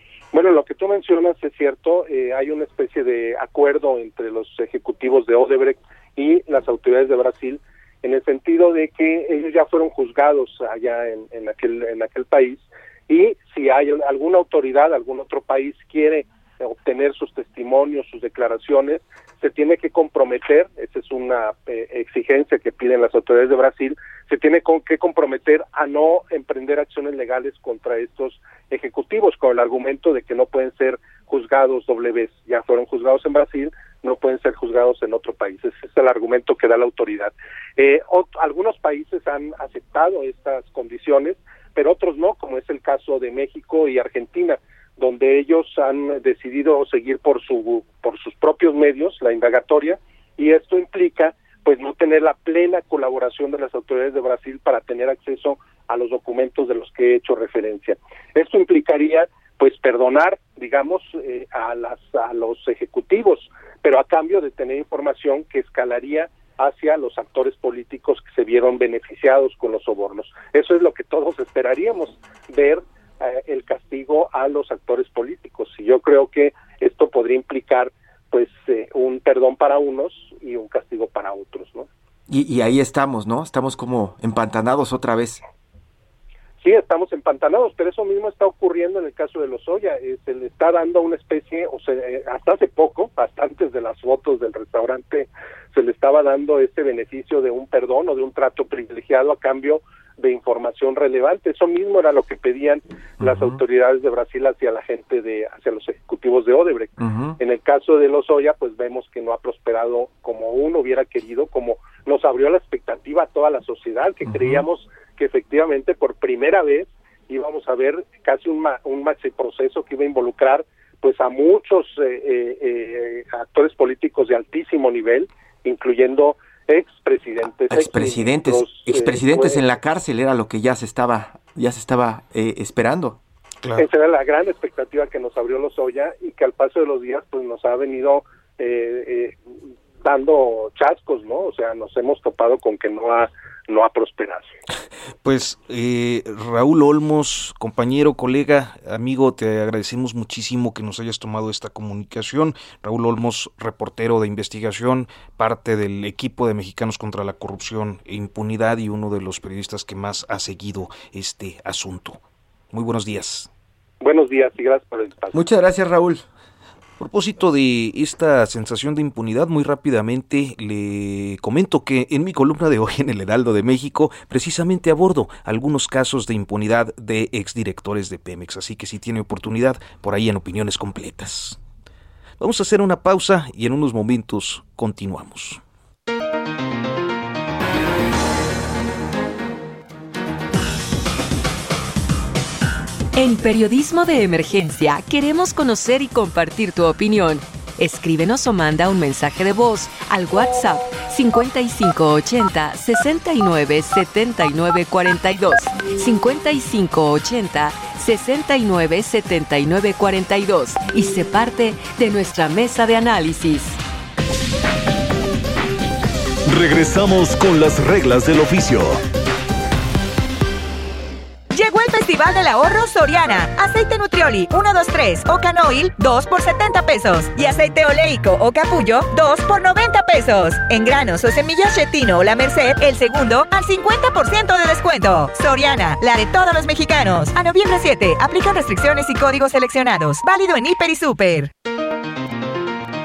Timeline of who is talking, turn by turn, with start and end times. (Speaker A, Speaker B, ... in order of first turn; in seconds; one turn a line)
Speaker A: 0.3-81.9
Speaker B: 82.3-85.4
Speaker A: 86.6-129.6
Speaker B: 103.2-103.6
Speaker B: 107.0-107.4
Speaker B: 114.2-114.6
Speaker B: 127.7-133.2
Speaker C: 133.6-133.9
Speaker A: 133.8-139.4
Speaker A: 140.0-144.5
Speaker C: 145.2-162.2
Speaker C: 162.7-163.5
Speaker A: 164.0-165.4
Speaker B: 165.3-166.2
Speaker C: 167.0-181.6
Speaker C: 182.4-185.6
Speaker D: 193.1-213.8
Speaker E: 216.4-219.0
Speaker F: 221.5-241.5